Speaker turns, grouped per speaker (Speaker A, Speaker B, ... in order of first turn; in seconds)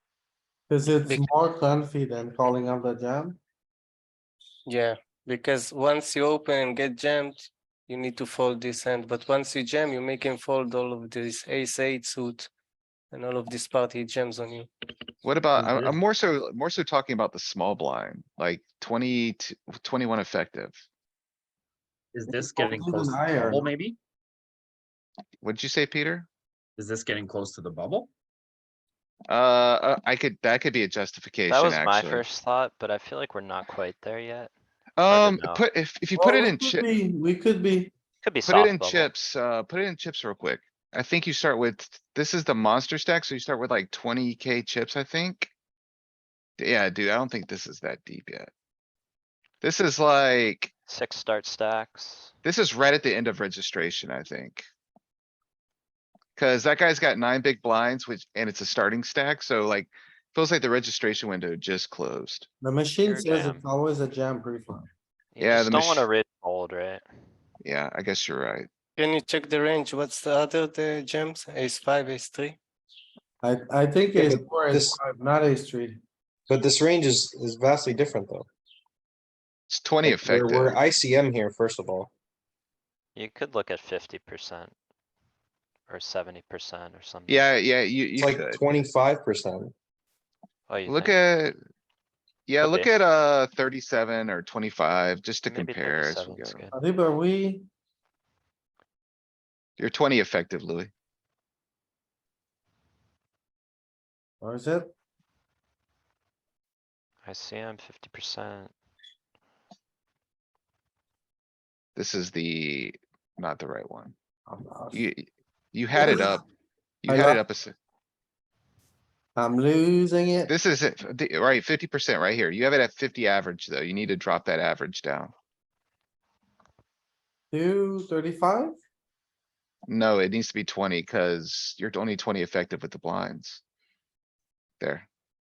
Speaker A: 0.7-3.4, 22.4-23.6, 36.1-37.9, 62.6-64.9, 73.4-76.0, 96.7-97.7, 104.4-104.9, 114.5-115.0, 116.0-116.4, 117.1-117.4, 119.4-120.5, 127.5-128.8
Speaker B: 4.7-12.5, 13.1-14.7, 15.6-15.9, 69.0-72.6
Speaker C: 15.2-20.8, 25.4-26.3, 29.3-32.2, 35.0-36.9, 38.5-45.5, 46.6-48.5, 49.6-50.7, 52.4-54.6, 56.4-62.5, 65.4-66.1, 67.6-68.7, 79.7-80.8, 87.3-88.8, 90.9-91.6, 92.5-96.7, 99.8-100.9, 112.0-114.1, 114.9-116.4, 117.0-117.7, 120.5-125.3, 129.9-133.6, 134.8-135.1
Speaker D: 22.1-24.0, 26.8-28.1
Speaker E: 31.5-34.5, 35.1-35.6, 38.2-39.1, 50.9-52.3, 63.0-63.7, 65.3-67.1, 83.1-84.7, 85.9-87.5, 90.7-91.1, 92.6-93.0, 95.5-96.8, 107.2-108.7
Speaker F: 74.1-75.0, 76.5-78.5, 80.0-82.1, 88.2-89.7